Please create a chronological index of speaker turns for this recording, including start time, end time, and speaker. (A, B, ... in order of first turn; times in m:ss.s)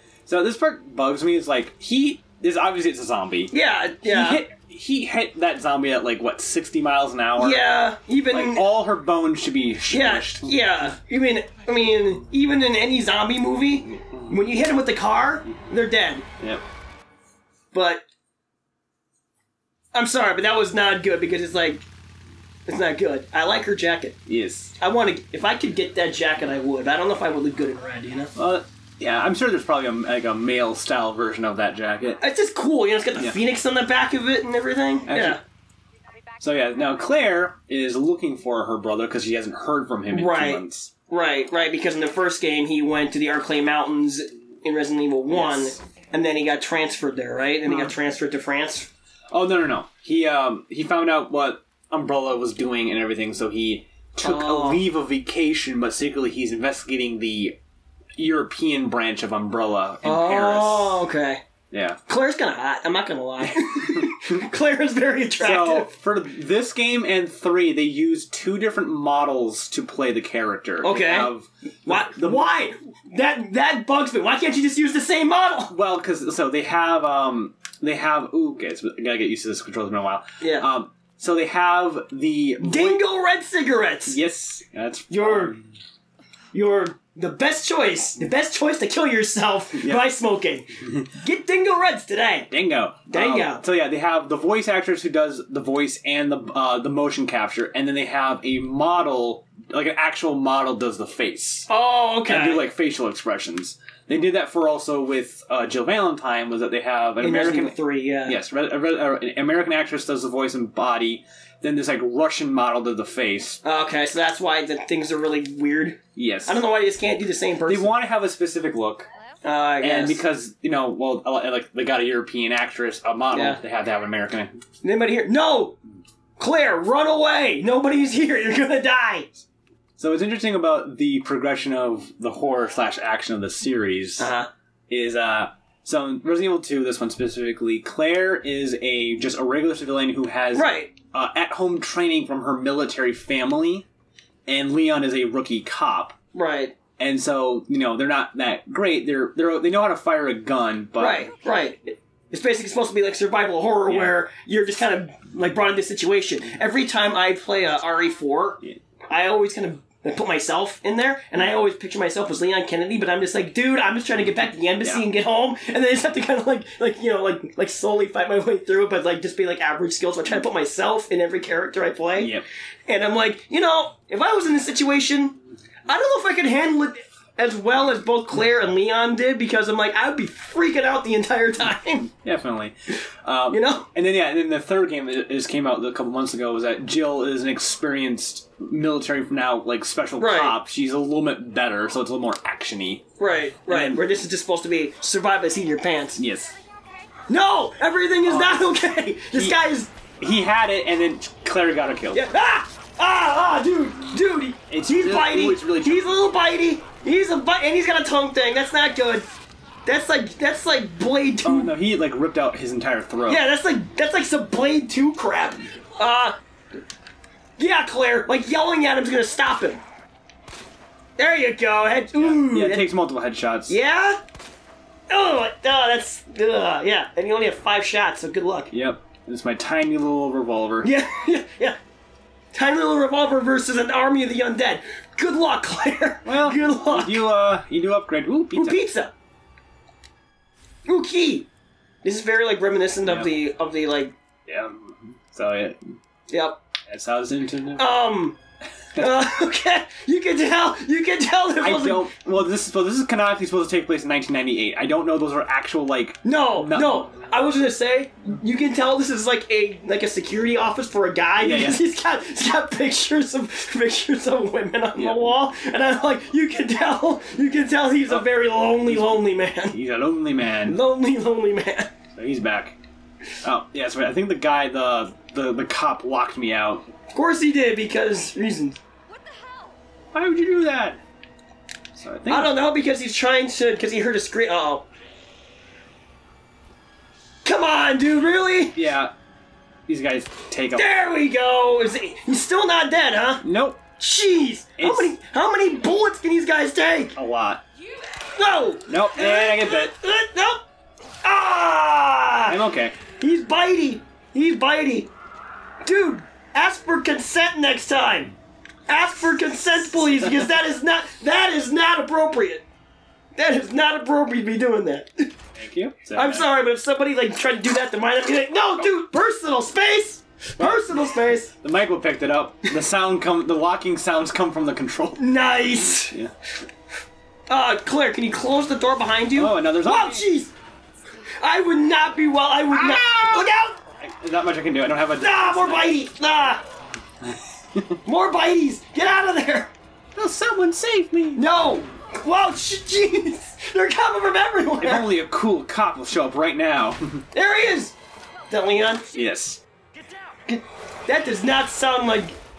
0:00.3-0:03.5 A
0:03.5-0:04.5 B
0:04.0-0:07.6 A
0:07.4-0:08.7 B
0:08.3-0:10.7 A
0:09.9-0:16.2 B
0:13.9-0:14.4 A
0:17.7-0:18.0 B
0:19.9-0:21.8 B
0:22.7-0:24.2 B
0:24.3-0:24.7 A
0:24.8-0:28.3 B
0:28.4-0:32.2 A
0:32.2-0:35.4 B
0:35.1-0:35.4 A
0:36.0-0:37.5 C
0:36.4-0:40.9 A
0:40.1-0:48.9 B
0:45.3-0:45.8 A
0:47.6-0:47.9 A
0:49.3-0:57.6 A
0:54.2-0:54.8 B
0:58.2-1:01.0 A
1:00.0-1:01.4 B
1:01.7-1:02.0 A
1:02.1-1:05.9 B
1:03.8-1:04.3 A
1:05.4-1:12.5 A
1:10.8-1:11.3 B
1:11.8-1:15.7 B
1:15.7-1:23.0 A
1:20.4-1:20.7 B
1:22.6-1:24.2 B
1:24.1-1:25.7 A
1:25.1-1:25.6 B
1:26.5-1:32.5 B
1:29.8-1:30.0 A
1:30.8-1:31.1 A
1:32.5-1:41.7 A
1:33.1-1:33.6 B
1:41.7-1:42.7 B
1:42.2-1:53.6 A
1:47.2-1:48.4 B
1:53.6-1:57.9 B
1:56.1-1:56.6 A
1:57.7-1:59.1 A
1:59.1-1:59.4 C
1:59.4-2:00.2 B
1:59.8-2:04.6 A
2:03.3-2:03.6 B
2:04.8-2:05.8 B
2:06.4-2:09.4 B
2:10.0-2:14.3 A
2:14.2-2:14.5 B
2:14.9-2:23.9 A
2:20.5-2:20.9 B
2:24.5-2:26.2 A
2:26.3-2:26.8 B
2:27.0-2:31.3 A
2:31.0-3:02.1 B
2:33.9-2:34.1 A
2:52.2-2:52.4 A
3:02.2-3:13.0 A
3:03.5-3:03.9 B
3:10.2-3:10.6 B
3:13.2-3:16.2 B
3:13.7-3:14.0 A
3:16.2-3:16.6 A
3:16.2-3:17.2 C
3:17.3-3:19.9 B
3:18.2-3:18.8 A
3:19.3-3:19.6 A
3:20.2-3:22.3 A
3:22.1-3:29.3 B
3:24.7-3:26.2 A
3:29.9-3:31.8 B
3:31.4-3:33.4 A
3:33.2-3:36.4 B
3:37.6-3:39.8 B
3:41.2-3:42.9 B
3:42.2-3:43.8 A
3:43.7-3:44.2 B
3:45.1-3:48.7 B
3:48.7-3:50.9 A
3:50.8-3:51.8 B
3:52.5-3:57.2 B
3:56.2-3:58.8 A
3:58.5-3:59.1 B
4:00.9-4:01.5 B
4:02.0-4:04.1 B
4:03.0-4:03.3 A
4:04.4-4:05.9 A
4:06.3-4:06.6 B
4:06.9-4:07.8 A
4:07.8-4:08.4 B
4:09.0-4:12.1 B
4:11.6-4:17.0 A
4:16.2-4:29.8 B
4:21.4-4:21.8 A
4:24.9-4:25.4 A
4:28.1-4:30.8 A
4:30.6-4:31.9 B
4:32.1-4:32.8 A
4:33.4-4:36.9 A
4:37.1-4:38.8 B
4:39.1-4:39.8 C
4:40.1-4:41.0 A
4:41.9-4:42.6 A
4:42.3-4:44.8 B
4:47.4-4:48.8 B
4:48.8-4:49.1 A
4:49.9-4:50.9 A
4:50.8-4:53.4 B
4:53.4-4:53.8 A
4:54.0-4:57.2 B
4:54.8-4:55.1 A
4:57.1-4:57.6 A
4:57.8-4:58.8 C
4:58.3-5:00.6 B
4:58.9-4:59.9 A
5:01.2-5:02.6 B
5:02.4-5:03.0 A
5:03.2-5:05.1 B
5:05.8-5:08.3 B
5:08.9-5:12.6 B
5:13.4-5:15.3 B
5:15.6-5:16.5 A
5:16.1-5:21.5 B
5:20.6-5:26.3 A
5:25.2-5:26.2 B
5:27.5-5:30.5 B
5:29.4-5:30.3 A
5:31.4-5:33.8 B
5:32.7-5:36.0 A
5:35.2-5:36.6 B
5:37.2-5:38.0 A
5:38.0-5:39.7 B
5:40.1-5:41.4 A
5:41.4-5:45.1 B
5:44.8-5:47.2 A
5:47.3-5:47.9 B
5:48.5-5:49.2 C
5:48.5-5:49.0 B
5:49.1-5:49.6 A
5:50.4-5:52.4 B